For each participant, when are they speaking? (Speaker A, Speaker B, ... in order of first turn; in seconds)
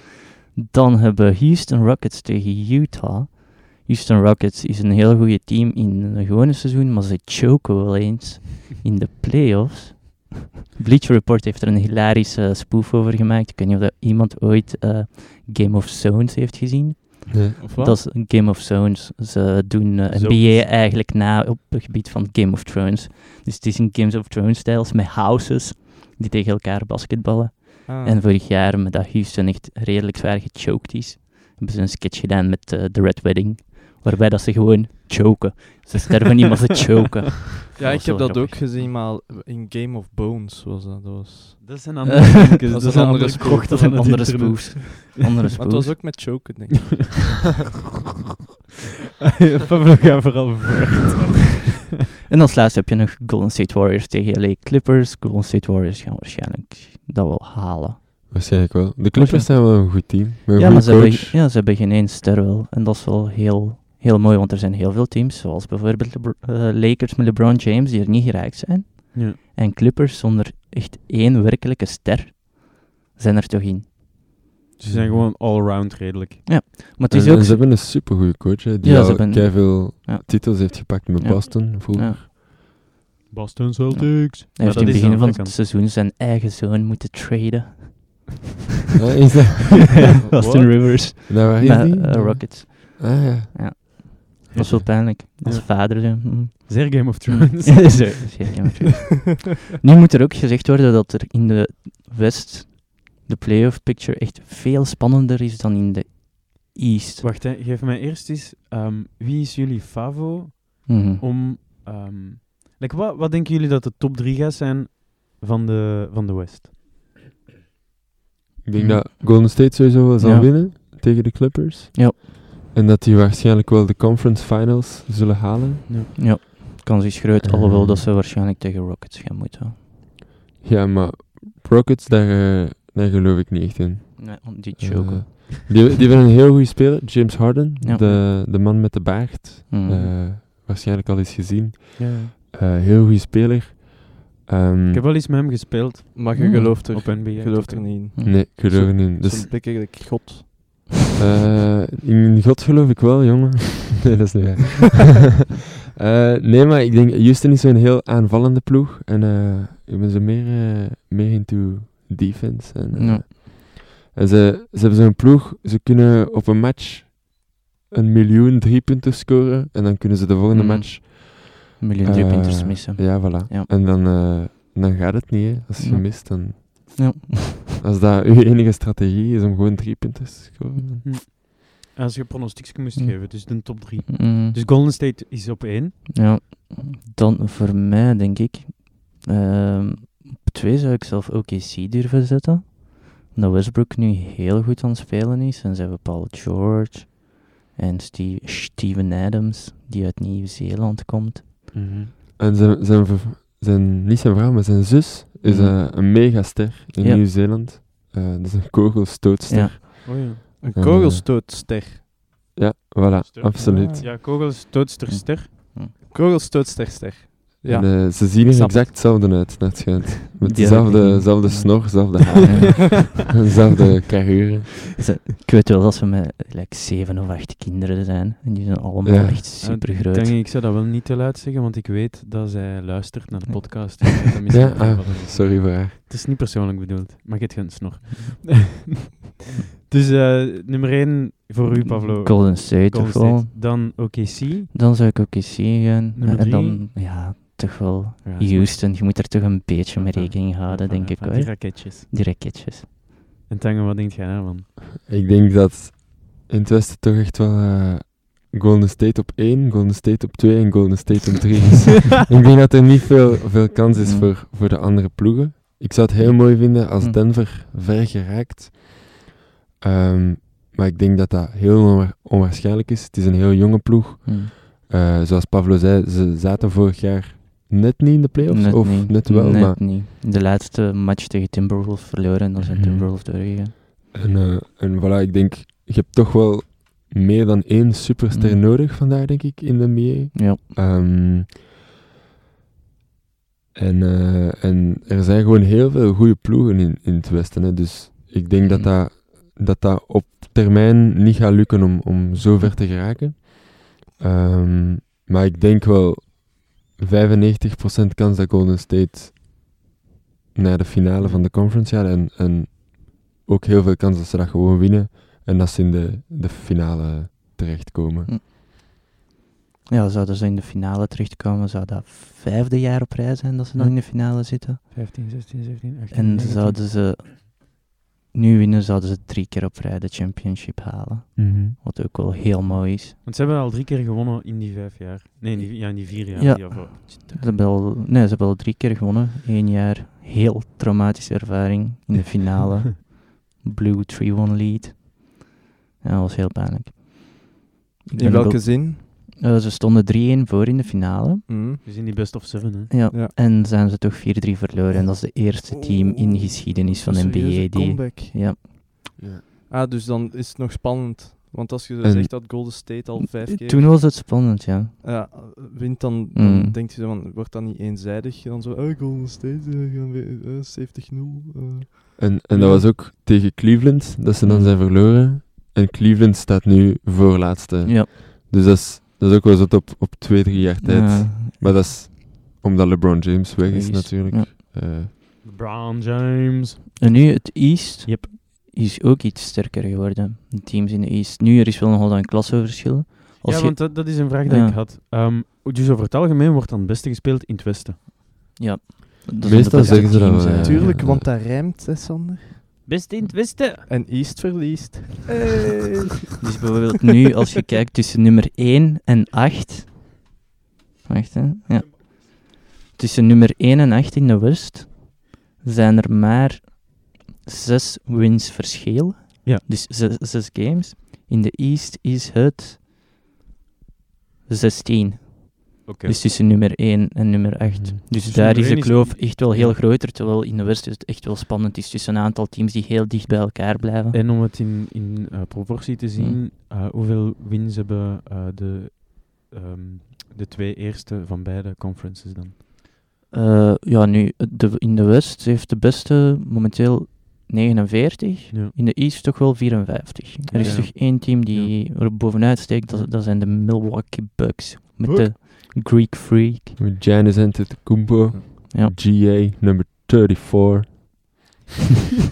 Speaker A: 0.6-38.8, 42.1-42.6, 43.4-46.1, 52.3-58.6, 59.1-73.9, 76.5-78.0, 78.8-82.2, 83.9-88.3, 90.0-107.3, 110.9-111.2, 118.8-119.0, 120.2-120.5, 126.2-129.8, 134.2-135.6, 137.8-138.1, 139.7-140.1, 146.4-146.8, 148.2-148.4, 162.9-163.3, 170.5-173.7, 175.8-177.8, 183.0-184.6, 186.1-201.5, 205.4-205.8, 209.5-209.8, 215.1-215.9, 220.4-222.8, 225.0-230.4, 233.5-234.1, 241.7-243.5, 244.7-252.9, 264.0-264.3, 266.2-267.2, 274.2-274.5, 278.5-283.7, 288.3-288.6, 290.3-290.6, 298.7-298.9, 319.9-324.8, 326.1-333.2, 336.0-345.5, 346.0-351.5, 352.9-358.6, 363.4-364.9, 366.4-366.8, 374.4-374.7, 377.9-378.1, 380.8-381.5, 383.7-384.5, 387.0-394.8, 398.6-401.0, 406.4-410.0, 411.1-422.8, 424.5-434.2, 436.2-436.4, 443.3-456.8
Speaker B: 17.3-17.6, 58.3-61.4, 74.8-75.3, 77.1-82.3, 89.0-90.0, 91.3-93.8, 118.6-125.9, 127.4-128.1, 130.6-145.0, 148.2-149.5, 151.2-155.3, 156.0-177.0, 177.8-181.1, 201.7-210.2, 210.7-211.3, 212.6-214.0, 217.7-224.8, 229.0-229.4, 234.5-236.0, 255.1-269.2, 269.8-279.8, 282.6-283.1, 284.1-291.6, 293.8-309.4, 310.5-318.3, 331.4-331.8, 359.2-359.4, 362.0-362.3, 372.2-385.1, 399.4-401.3, 456.8-461.4
Speaker C: 17.6-18.0, 27.9-28.2, 37.8-41.8, 42.7-44.4, 45.5-47.2, 146.2-150.9, 210.6-212.0, 213.6-214.1, 216.1-219.0, 348.1-349.1, 351.5-351.8, 355.7-358.6, 359.7-364.0, 365.0-372.9, 400.6-402.6, 403.9-406.0
Speaker D: 20.1-20.7, 41.6-45.1, 46.9-47.5, 49.4-51.7, 74.8-76.5, 83.3-85.5, 90.4-90.7, 94.5-98.5, 107.2-116.7, 142.0-142.3, 144.9-148.1, 181.0-186.1, 210.1-210.4, 213.2-215.5, 229.6-238.8, 239.8-244.7, 246.2-246.8, 248.2-248.8, 250.0-252.1, 253.5-254.7, 311.2-311.5, 324.8-326.8, 332.7-337.6, 351.8-352.9, 385.4-387.2, 393.4-398.0, 402.9-403.9, 425.9-426.2, 428.1-429.8, 434.1-442.6, 450.5-451.7